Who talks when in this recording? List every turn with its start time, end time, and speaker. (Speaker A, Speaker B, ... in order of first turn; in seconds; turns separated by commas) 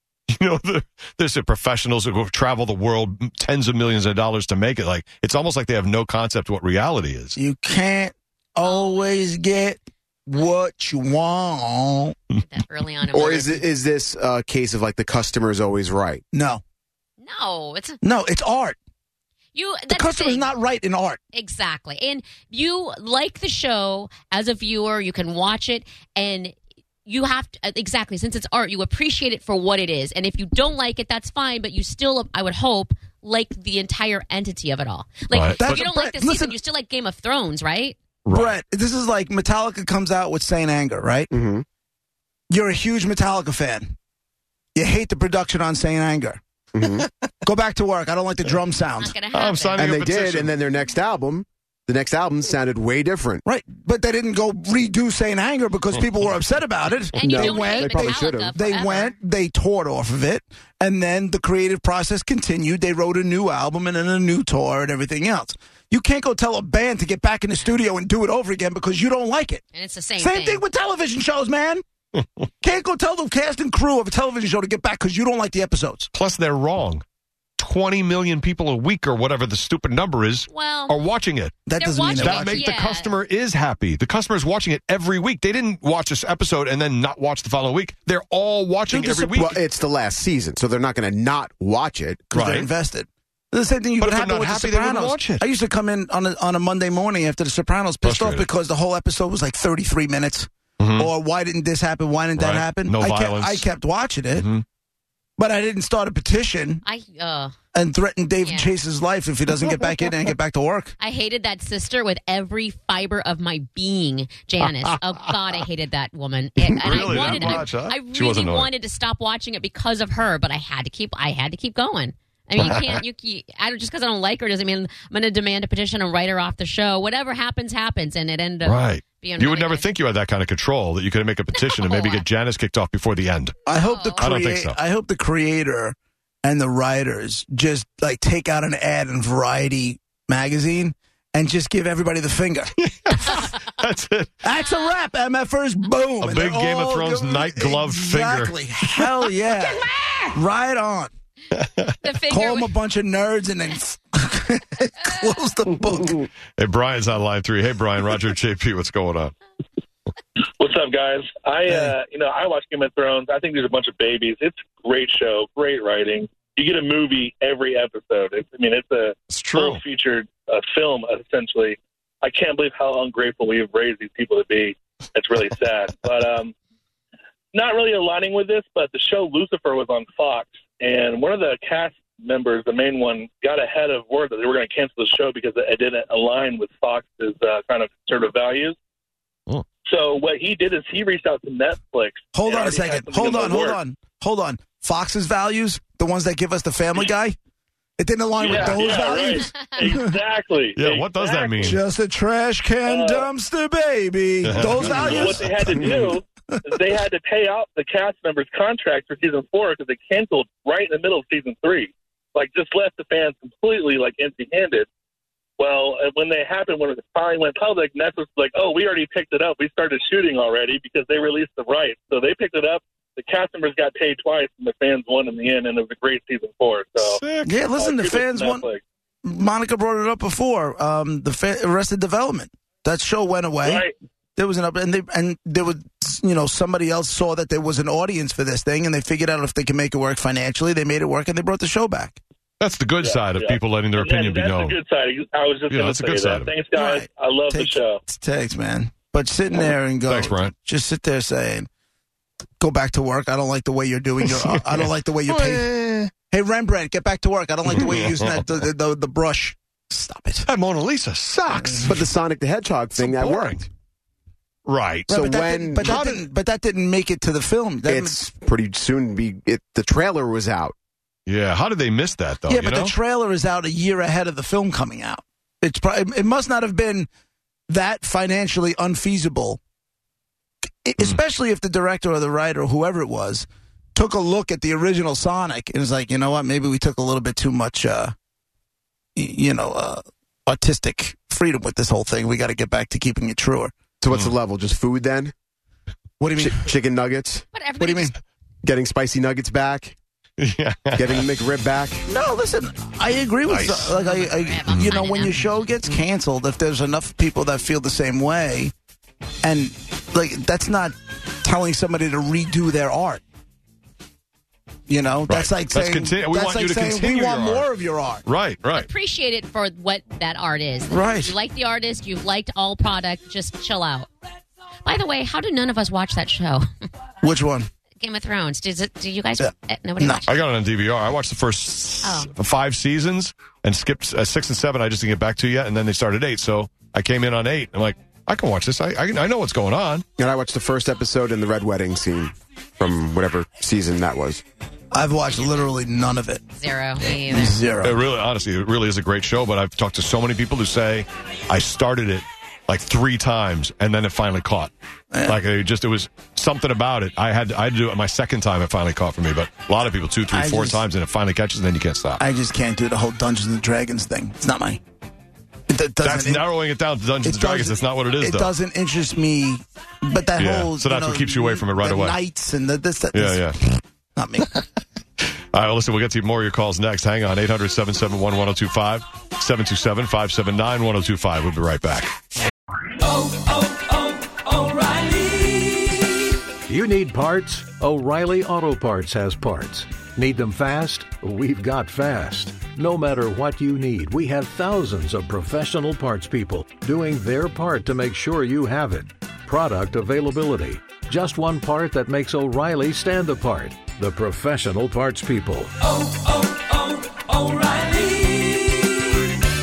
Speaker A: 0.3-7.4, Speaker B: 7.4-12.2, Speaker C: 8.6-9.3, Speaker C: 12.4-13.6, Speaker D: 13.1-16.2, Speaker B: 16.3-16.6, Speaker C: 17.2-18.0, Speaker B: 18.0-18.8, Speaker C: 19.5-20.5, Speaker B: 19.9-21.2, Speaker C: 21.3-38.0, Speaker A: 35.3-35.8, Speaker B: 35.6-36.6, Speaker A: 38.2-38.6, Speaker B: 38.3-41.3, Speaker D: 41.3-41.6, Speaker B: 42.5-44.0, Speaker B: 44.8-46.4, Speaker D: 46.7-47.1, Speaker B: 47.4-49.1, Speaker C: 49.0-49.9, Speaker A: 49.3-50.6, Speaker D: 49.8-53.4, Speaker B: 53.5-69.6, Speaker C: 57.2-59.2, Speaker D: 57.3-58.5, Speaker C: 67.6-67.8, Speaker C: 69.7-70.6, Speaker B: 70.2-71.8, Speaker B: 72.6-76.1, Speaker A: 76.1-77.0, Speaker A: 77.6-81.6, Speaker C: 80.5-81.0, Speaker B: 81.7-82.7, Speaker C: 81.8-83.1, Speaker A: 82.2-89.6, Speaker B: 88.9-89.5, Speaker D: 89.4-92.3, Speaker B: 92.3-104.5, Speaker A: 92.3-92.7, Speaker A: 94.0-95.4, Speaker A: 98.0-98.5, Speaker A: 100.8-101.1, Speaker A: 102.4-103.7, Speaker A: 104.3-104.7, Speaker B: 105.4-106.8, Speaker C: 106.8-107.5, Speaker B: 107.7-110.9, Speaker C: 108.4-108.7, Speaker C: 111.0-129.9, Speaker A: 116.7-118.7, Speaker A: 122.6-123.0, Speaker A: 128.7-133.6, Speaker C: 131.6-132.2, Speaker B: 133.7-142.7, Speaker C: 133.8-134.2, Speaker A: 134.2-134.8, Speaker A: 142.8-144.3, Speaker B: 144.4-151.1, Speaker A: 146.2-149.1, Speaker A: 151.6-151.9, Speaker C: 152.0-152.7, Speaker B: 152.3-156.3, Speaker A: 156.6-159.3, Speaker E: 160.6-176.5, Speaker A: 169.3-169.8, Speaker E: 177.5-188.8, Speaker E: 189.9-193.8, Speaker B: 192.3-197.4, Speaker B: 198.0-200.2, Speaker E: 198.4-201.8, Speaker C: 199.4-199.8, Speaker A: 200.8-201.8, Speaker B: 201.6-206.9, Speaker E: 202.8-203.3, Speaker A: 204.4-205.8, Speaker E: 204.8-214.9, Speaker E: 215.6-227.2, Speaker A: 227.0-227.6, Speaker B: 227.4-228.7, Speaker E: 227.8-228.8, Speaker B: 229.2-242.2, Speaker E: 233.6-233.9, Speaker A: 242.6-244.8, Speaker E: 243.0-248.0, Speaker A: 245.7-246.6, Speaker B: 246.7-251.7, Speaker A: 250.1-250.5, Speaker B: 252.6-255.7, Speaker A: 254.2-256.1, Speaker B: 256.3-260.5, Speaker A: 257.7-258.4, Speaker A: 260.5-262.1, Speaker B: 261.5-262.0, Speaker D: 261.9-263.7, Speaker A: 263.0-263.7, Speaker A: 264.7-265.1, Speaker B: 265.1-268.2, Speaker D: 265.1-266.2, Speaker A: 265.8-266.3, Speaker D: 267.9-270.8, Speaker A: 271.3-272.9, Speaker B: 272.5-277.1, Speaker B: 277.7-279.6, Speaker B: 280.9-288.1, Speaker B: 289.2-293.8, Speaker D: 294.0-295.3, Speaker B: 296.2-296.7, Speaker D: 296.4-297.6, Speaker C: 297.5-298.1, Speaker B: 297.8-298.1, Speaker D: 298.6-300.0, Speaker A: 300.4-301.3, Speaker D: 301.0-302.0, Speaker B: 302.1-308.7, Speaker A: 303.5-304.0, Speaker C: 303.9-305.7, Speaker A: 304.7-305.1, Speaker B: 309.4-313.2, Speaker B: 314.9-318.2, Speaker A: 315.3-317.7, Speaker A: 318.2-318.9, Speaker C: 318.8-324.1, Speaker B: 320.9-321.3, Speaker C: 324.9-326.7, Speaker B: 327.2-327.7, Speaker C: 328.0-330.3, Speaker B: 329.4-330.2, Speaker A: 330.3-340.1, Speaker C: 332.0-332.3, Speaker D: 340.2-344.4, Speaker B: 344.9-346.4, Speaker C: 346.6-347.6, Speaker B: 347.0-348.0, Speaker A: 347.8-354.7, Speaker B: 355.1-355.4, Speaker A: 355.2-362.2, Speaker B: 360.3-360.9, Speaker B: 362.2-364.8, Speaker B: 365.7-366.5, Speaker A: 366.0-368.5, Speaker B: 367.2-374.5, Speaker A: 370.4-372.2, Speaker A: 373.1-373.6, Speaker A: 375.5-382.1, Speaker F: 383.3-386.0, Speaker F: 386.7-408.9